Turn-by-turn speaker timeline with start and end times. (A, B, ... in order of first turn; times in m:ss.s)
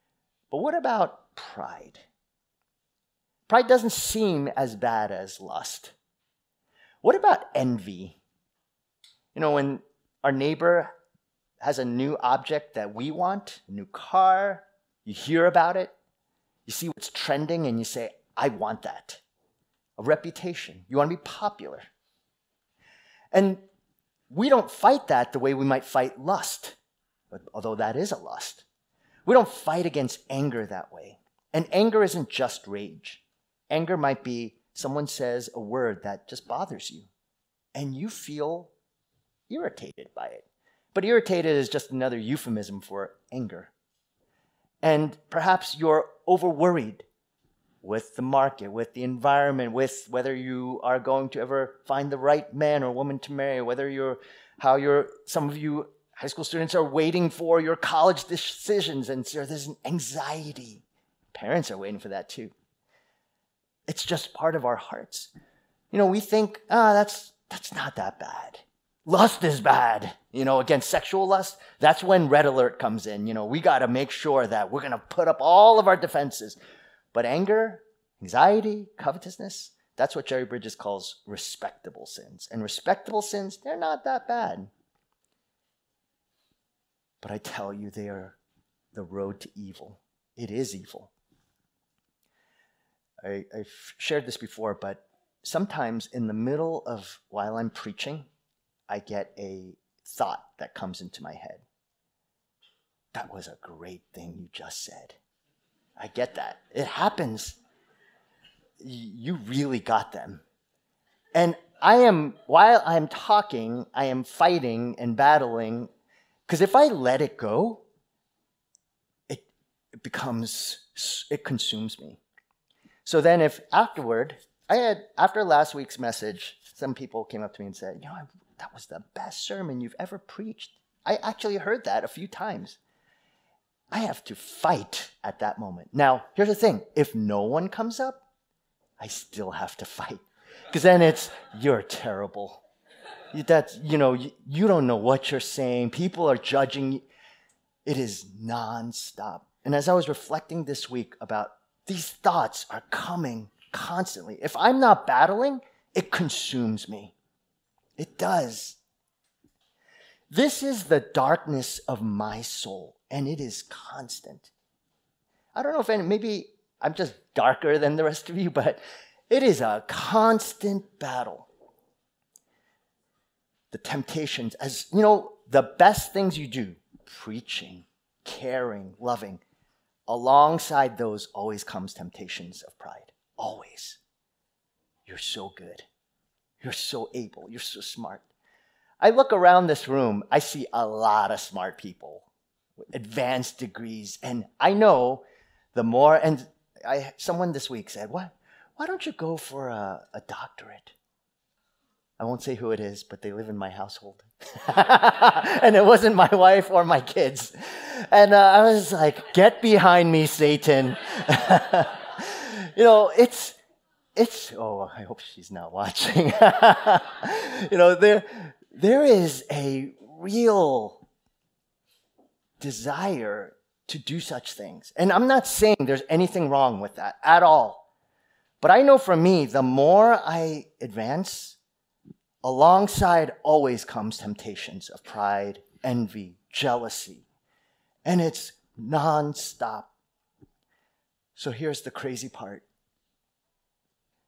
0:00.5-0:02.0 A
0:03.5-0:05.9 A
0:07.0-0:08.2 A
0:09.3-0:10.9 A
0:11.6-0:15.9 A
0:16.7-0:19.2 A
0:20.0-0:21.9 A
0:23.3-0:23.6 A
0:24.3-0:26.8 A
0:27.3-0:28.6 A
0:29.3-0:37.1 A
0:37.8-0:38.7 A
0:39.5-0:43.7 A
0:44.8-0:47.0 A
0:47.8-1:02.5 A
1:03.9-1:05.3 A
1:05.9-1:16.6 A
1:17.1-1:24.7 A
1:27.2-1:28.4 A
1:28.9-1:31.1 A
1:33.2-1:38.3 A
1:38.9-1:41.6 A
1:43.1-1:45.2 A
1:46.0-1:47.6 A
1:48.8-1:50.4 A
1:51.4-1:55.9 A
1:56.5-1:57.8 A
2:00.0-2:02.2 A
2:03.0-2:12.8 A
2:13.9-2:18.2 A
2:19.0-2:22.6 A
2:23.3-2:27.0 A
2:27.8-2:37.2 A
2:38.0-2:38.8 A
2:40.3-2:44.5 A
2:45.5-2:51.5 A
2:53.7-2:59.4 A
3:00.1-3:04.0 A
3:05.1-3:05.9 A
3:06.6-3:08.3 A
3:09.0-3:12.3 A
3:12.9-3:20.9 A
3:22.2-3:33.6 A
3:34.2-3:41.0 A
3:42.6-3:47.9 A
3:48.6-3:51.6 A
3:52.4-3:57.2 A
3:58.0-3:59.9 A
4:01.4-4:02.6 A